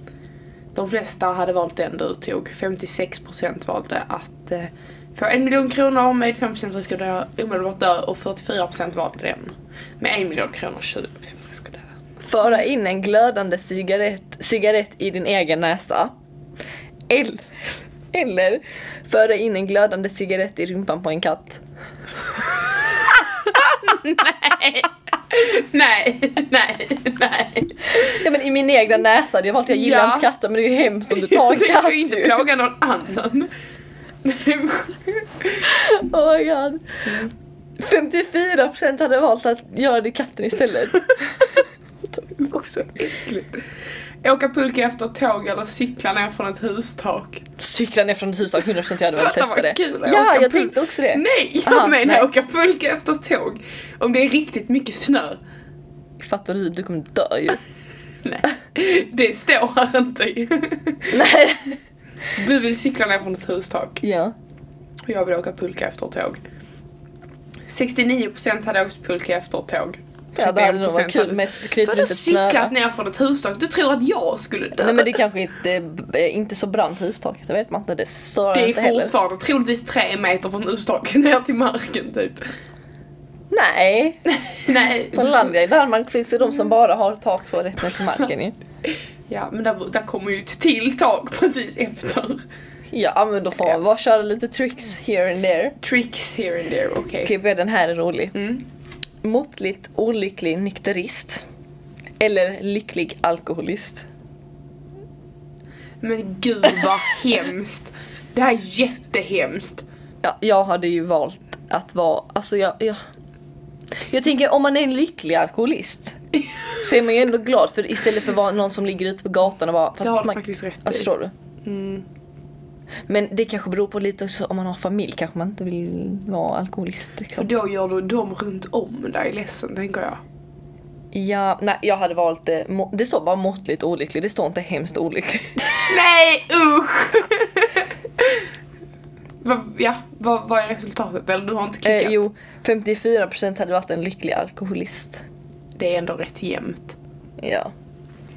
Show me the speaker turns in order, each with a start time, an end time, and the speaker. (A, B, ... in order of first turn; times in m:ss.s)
0:00.7-0:11.9 A
0:12.2-0:16.1 B
0:17.1-0:17.5 B
0:18.1-0:21.6 B
0:22.9-0:28.2 A
0:27.9-0:32.4 B
0:29.7-0:30.3 A
0:31.1-0:33.5 A
0:34.2-0:35.7 A
0:35.6-0:37.0 B
0:37.1-0:37.3 A
0:37.8-0:41.6 B
0:42.2-0:42.6 B
0:42.4-0:43.7 A
0:44.2-0:47.4 A
0:47.6-0:52.3 B
0:49.1-0:55.4 A
0:56.2-0:57.6 B
0:58.2-1:01.2 A
1:01.1-1:01.8 B
1:02.4-1:04.0 A
1:04.0-1:04.3 B
1:05.1-1:06.4 A
1:07.7-1:15.2 A
1:10.4-1:12.7 B
1:14.8-1:19.1 B
1:18.5-1:22.5 A
1:23.5-1:24.3 B
1:24.4-1:25.6 A
1:25.1-1:28.6 B
1:29.3-1:32.4 A
1:32.9-1:35.8 B
1:35.8-1:37.3 A
1:37.2-1:38.4 B
1:38.4-1:38.6 A
1:39.2-1:41.4 B
1:42.2-1:44.1 B
1:46.0-1:49.8 A
1:50.2-1:53.0 B
1:54.1-1:56.2 B
1:56.8-2:01.3 B
2:00.0-2:01.1 A
2:01.6-2:02.1 A
2:03.1-2:07.5 B
2:07.4-2:10.2 A
2:11.1-2:15.6 B
2:15.8-2:18.5 A
2:19.4-2:22.2 A
2:21.8-2:25.2 B
2:25.8-2:27.0 A
2:27.4-2:27.7 B